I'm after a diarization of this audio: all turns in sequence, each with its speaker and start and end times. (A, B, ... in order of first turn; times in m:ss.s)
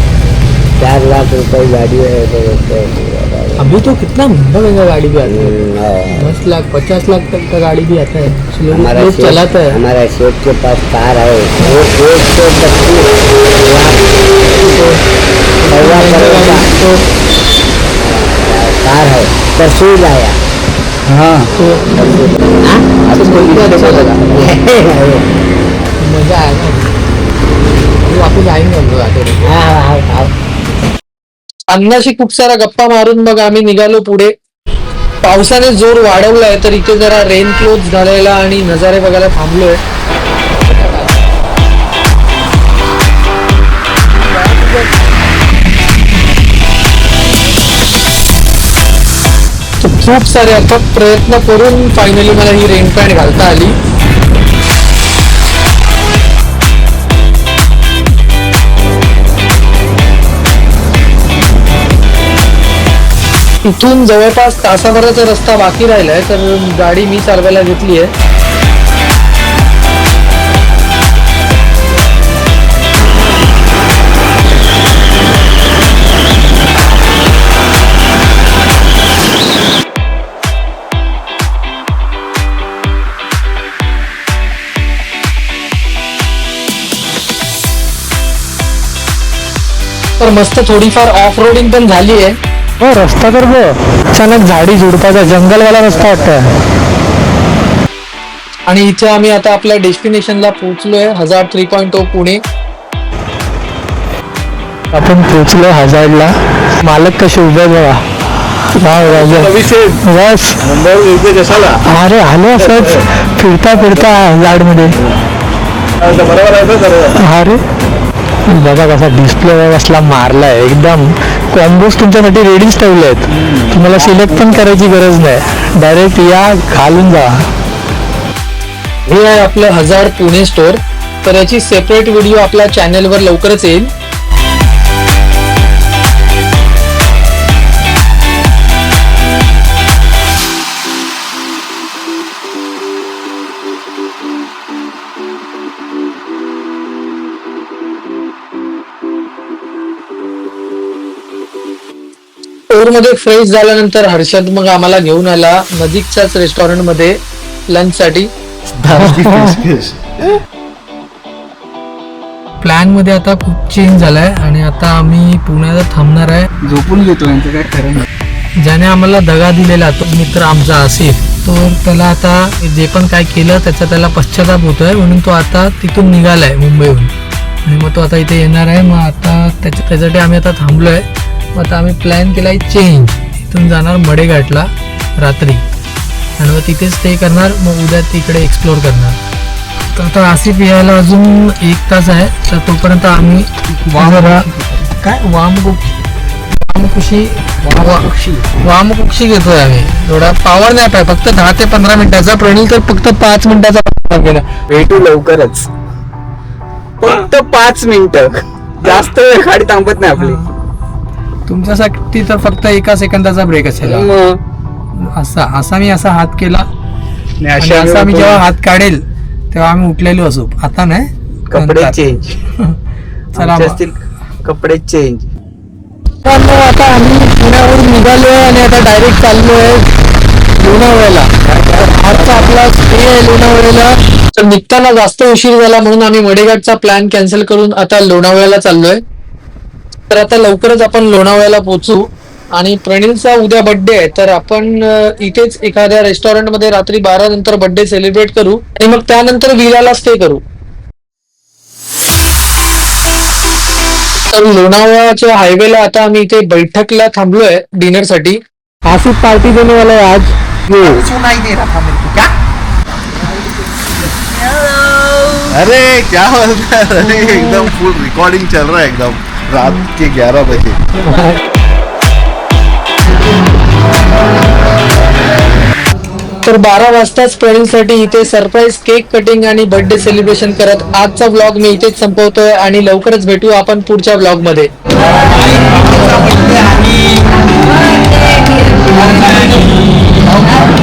0:00.8-0:03.6 A
0:03.6-0:05.6 B
0:05.2-0:06.3 A
0:06.1-0:09.8 B
0:08.7-0:14.3 A
0:14.6-0:15.0 B
0:15.6-0:17.0 B
0:15.7-0:16.7 A
0:18.0-0:20.4 A
0:21.0-0:21.5 C
0:21.6-0:22.2 B
0:21.6-0:22.9 A
0:23.0-0:24.4 C
0:23.1-0:24.5 B
0:24.3-0:25.2 A
0:26.0-0:26.9 B
0:28.0-0:29.5 B
0:29.4-0:30.3 A
0:31.7-0:34.3 B
0:35.2-0:39.8 B
0:44.4-0:44.8 B
0:49.8-0:53.8 B
1:03.6-1:08.1 B
1:30.2-1:36.5 B
1:38.7-1:42.4 B
1:44.9-1:48.0 B
1:48.7-1:50.6 B
1:49.0-1:50.0 C
1:50.6-1:51.8 C
1:51.8-1:55.0 B
1:52.6-1:53.0 C
1:56.0-1:57.2 C
1:57.2-1:57.6 B
1:58.5-2:07.4 B
2:03.3-2:04.6 C
2:09.1-2:13.9 B
2:32.7-2:37.2 B
2:37.7-2:38.3 B
2:38.8-2:40.3 D
2:39.0-2:39.5 B
2:42.6-2:46.5 B
2:46.6-2:48.0 C
2:48.6-2:57.1 B
2:57.6-3:05.6 B
3:06.4-3:09.2 B
3:09.9-3:16.0 B
3:13.8-3:14.7 C
3:16.6-3:18.0 B
3:17.6-3:18.6 C
3:18.6-3:24.5 B
3:24.7-3:25.7 C
3:27.0-3:30.4 C
3:30.2-3:30.5 B
3:31.5-3:34.1 B
3:33.8-3:34.4 C
3:34.9-3:36.7 B
3:37.4-3:38.4 C
3:37.6-3:42.0 B
3:41.5-3:42.4 C
3:43.3-3:45.3 C
3:43.4-3:43.8 B
3:46.2-3:49.9 B
3:50.6-3:59.0 B
3:51.4-3:52.5 C
4:00.1-4:10.4 B
4:14.3-4:21.0 B
4:20.9-4:21.2 C
4:25.5-4:30.8 D
4:31.0-4:31.4 B
4:36.4-4:44.7 B
4:46.0-4:46.4 D
4:49.0-4:49.5 C